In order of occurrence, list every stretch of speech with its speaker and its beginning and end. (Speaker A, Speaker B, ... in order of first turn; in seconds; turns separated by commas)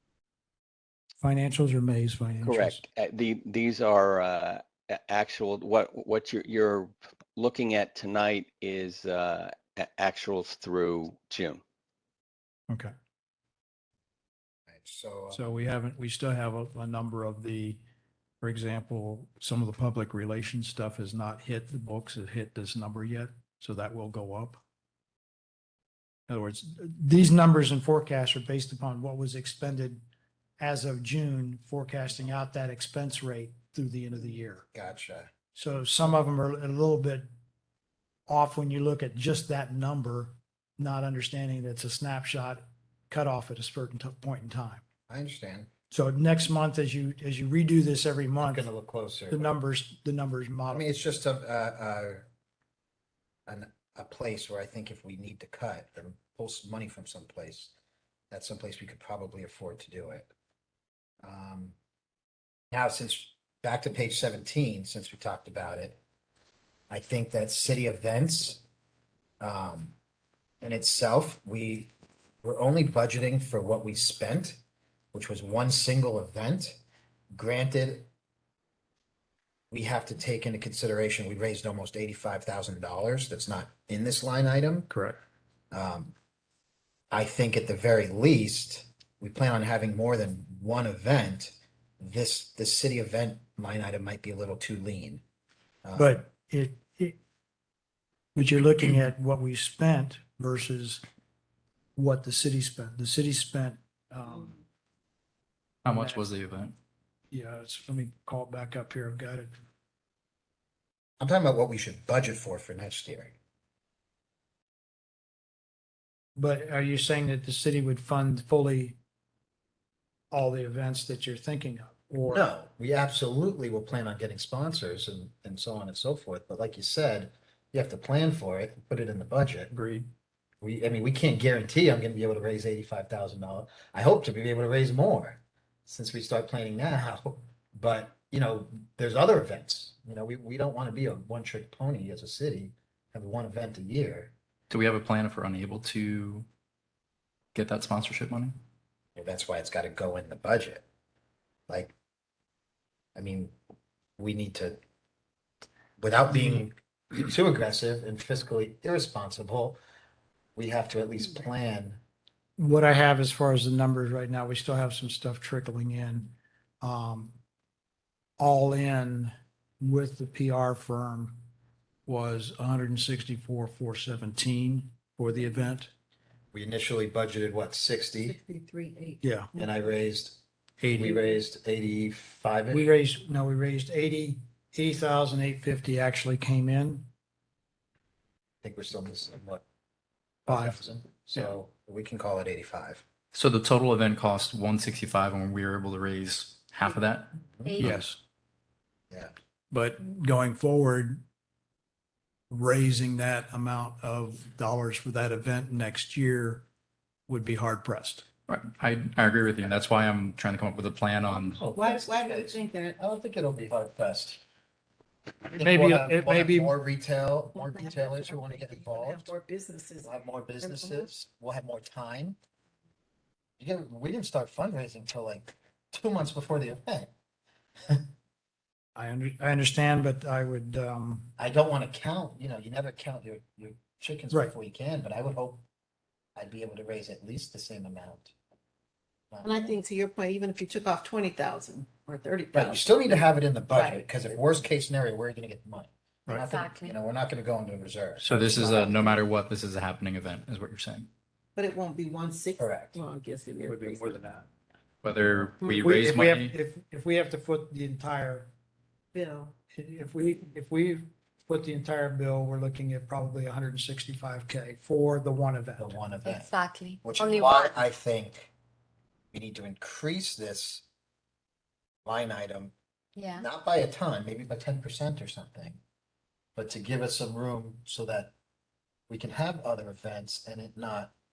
Speaker A: 1.1-2.8, Speaker B: 2.4-11.6, Speaker C: 14.7-15.5, Speaker A: 15.3-17.8, Speaker A: 18.4-24.6, Speaker A: 26.3-30.0, Speaker A: 30.6-34.7, Speaker C: 34.7-35.3, Speaker A: 35.5-37.3, Speaker A: 38.3-44.8, Speaker C: 45.1-45.7, Speaker A: 45.9-48.7, Speaker C: 48.4-49.5, Speaker A: 49.3-50.9, Speaker C: 50.7-52.3, Speaker C: 53.5-57.7, Speaker C: 58.3-60.3, Speaker C: 61.2-61.7, Speaker C: 62.7-66.0, Speaker C: 66.9-68.6, Speaker C: 69.4-70.0, Speaker C: 70.6-71.9, Speaker C: 72.4-74.6, Speaker C: 75.1-76.8, Speaker C: 77.3-78.1, Speaker C: 79.7-84.9, Speaker A: 84.9-85.2, Speaker C: 85.7-86.1, Speaker C: 87.1-95.2, Speaker C: 95.8-96.2, Speaker A: 96.0-97.2, Speaker A: 98.3-101.0, Speaker A: 102.0-104.6, Speaker D: 105.8-106.7, Speaker A: 105.9-106.2, Speaker A: 107.3-109.5, Speaker C: 111.2-113.3, Speaker A: 116.4-119.0, Speaker A: 120.3-122.5, Speaker C: 122.3-129.7, Speaker A: 129.7-130.1, Speaker C: 130.6-144.3, Speaker D: 144.7-146.4, Speaker D: 147.5-148.5, Speaker C: 149.1-150.8, Speaker C: 151.7-151.9, Speaker C: 153.2-153.5, Speaker C: 154.2-154.8, Speaker C: 156.0-159.8, Speaker A: 156.3-156.6, Speaker C: 160.6-162.0, Speaker A: 162.6-167.4, Speaker A: 168.4-171.4, Speaker A: 172.1-175.9, Speaker C: 176.5-178.4, Speaker E: 178.2-179.7, Speaker A: 179.2-179.5, Speaker C: 179.6-180.4, Speaker A: 180.8-181.2, Speaker C: 180.9-182.8, Speaker A: 182.7-187.1, Speaker C: 188.6-189.6, Speaker C: 190.4-193.0, Speaker A: 190.5-190.8, Speaker D: 193.3-198.0, Speaker A: 197.8-198.2, Speaker A: 199.7-201.2, Speaker A: 202.5-206.7, Speaker A: 207.3-208.2, Speaker D: 208.5-211.7, Speaker C: 211.4-214.4, Speaker E: 211.7-213.0, Speaker C: 215.5-219.3, Speaker A: 215.6-216.7, Speaker E: 217.5-221.1, Speaker C: 220.0-222.4, Speaker C: 223.6-227.1, Speaker A: 228.9-231.3, Speaker C: 231.4-235.6, Speaker C: 236.3-238.3, Speaker C: 239.3-239.7, Speaker E: 239.4-244.4, Speaker C: 242.5-249.2, Speaker F: 246.4-246.9, Speaker D: 248.2-251.1, Speaker E: 251.6-254.2, Speaker C: 252.6-253.0, Speaker A: 253.6-254.4, Speaker D: 255.0-256.5, Speaker A: 255.8-258.5, Speaker E: 259.1-259.6, Speaker A: 259.7-266.0, Speaker C: 265.8-268.5, Speaker F: 266.2-267.8, Speaker C: 269.3-270.8, Speaker C: 272.0-272.7, Speaker F: 273.1-273.4, Speaker C: 273.3-275.8, Speaker C: 276.5-278.3, Speaker C: 279.1-281.1